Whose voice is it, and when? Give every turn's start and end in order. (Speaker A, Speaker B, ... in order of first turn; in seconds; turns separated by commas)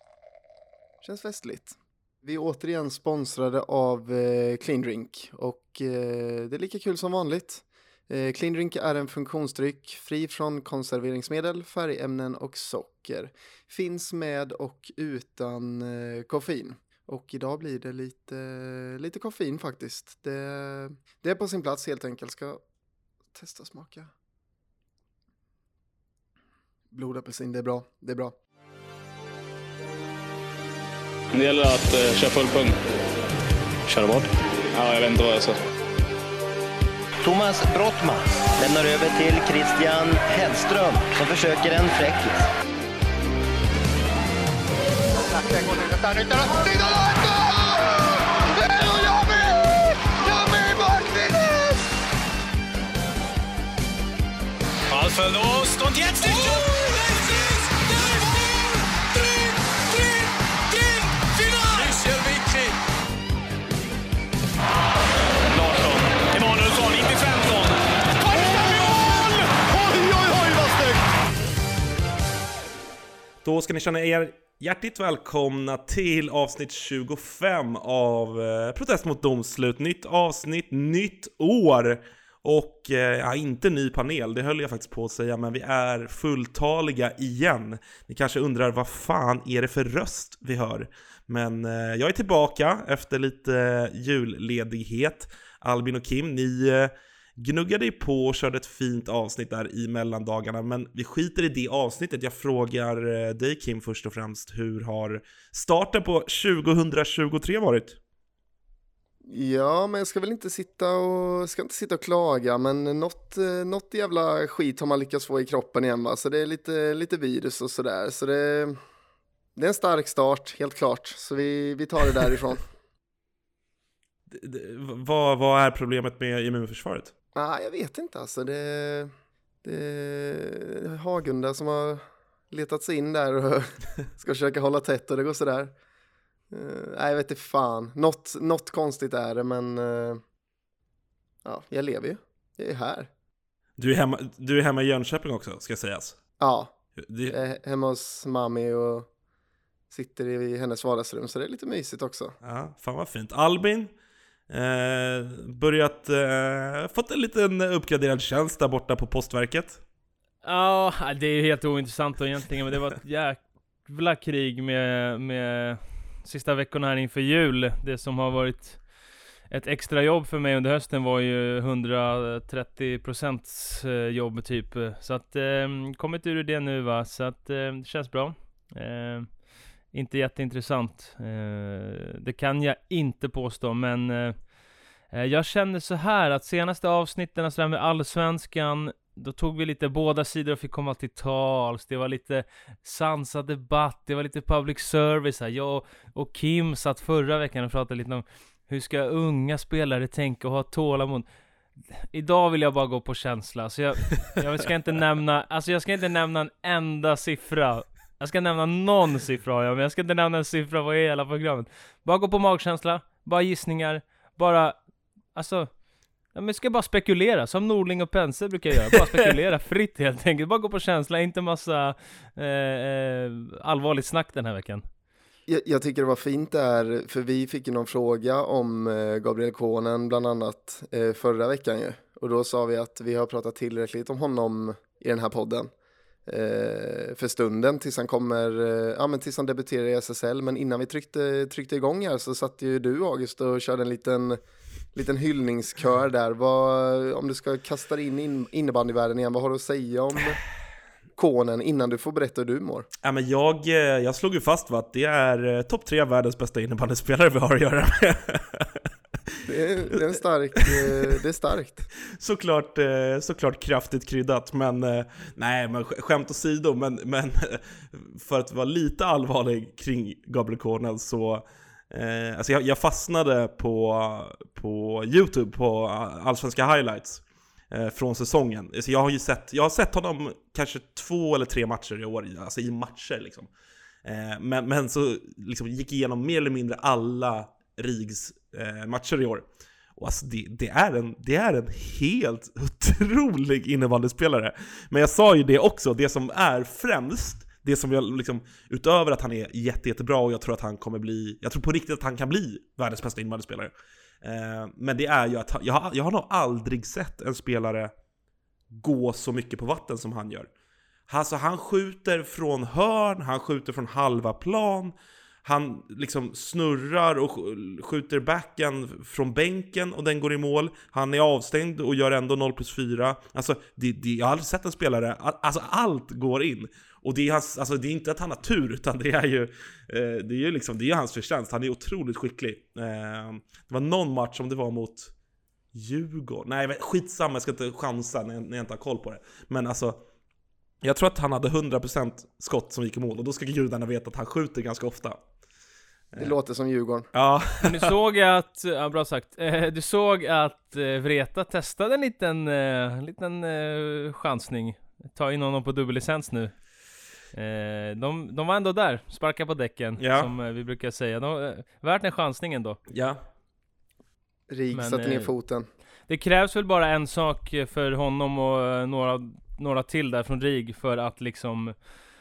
Speaker A: 1.0-22.6, Speaker A: 23.3-24.1, Speaker A: 26.9-28.3, Speaker B: 31.3-32.7, Speaker B: 33.9-35.5, Speaker C: 37.2-42.5, Speaker D: 46.0-46.5, Speaker D: 54.9-62.7, Speaker D: 65.5-71.0, Speaker E: 73.4-108.0, Speaker A: 109.3-118.8, Speaker A: 119.5-122.6, Speaker E: 124.3-127.1, Speaker A: 127.3-129.1, Speaker A: 129.6-135.7, Speaker A: 136.5-140.2, Speaker A: 141.4-143.1, Speaker E: 143.8-146.2, Speaker A: 146.4-146.7, Speaker E: 147.0-147.4, Speaker A: 147.3-149.1, Speaker A: 149.9-152.3, Speaker E: 152.4-153.9, Speaker E: 154.5-159.8, Speaker F: 160.4-168.8, Speaker F: 169.5-179.4, Speaker F: 179.9-184.5, Speaker F: 185.1-201.2, Speaker F: 202.1-214.8, Speaker F: 215.3-215.7, Speaker F: 216.3-224.8, Speaker A: 225.5-235.7, Speaker A: 236.3-244.4, Speaker A: 244.9-250.4, Speaker A: 251.2-252.9, Speaker E: 253.0-258.9, Speaker A: 259.4-261.9, Speaker E: 260.6-260.9, Speaker E: 262.1-283.5, Speaker E: 284.0-307.9, Speaker E: 308.7-310.5, Speaker E: 311.1-335.1, Speaker E: 335.7-340.0, Speaker E: 340.8-345.2, Speaker A: 346.2-347.1, Speaker E: 347.1-347.9, Speaker F: 347.6-356.6, Speaker F: 357.3-362.8, Speaker E: 360.0-360.3, Speaker E: 362.9-363.2, Speaker A: 364.5-365.7, Speaker F: 364.7-365.3, Speaker F: 366.1-371.7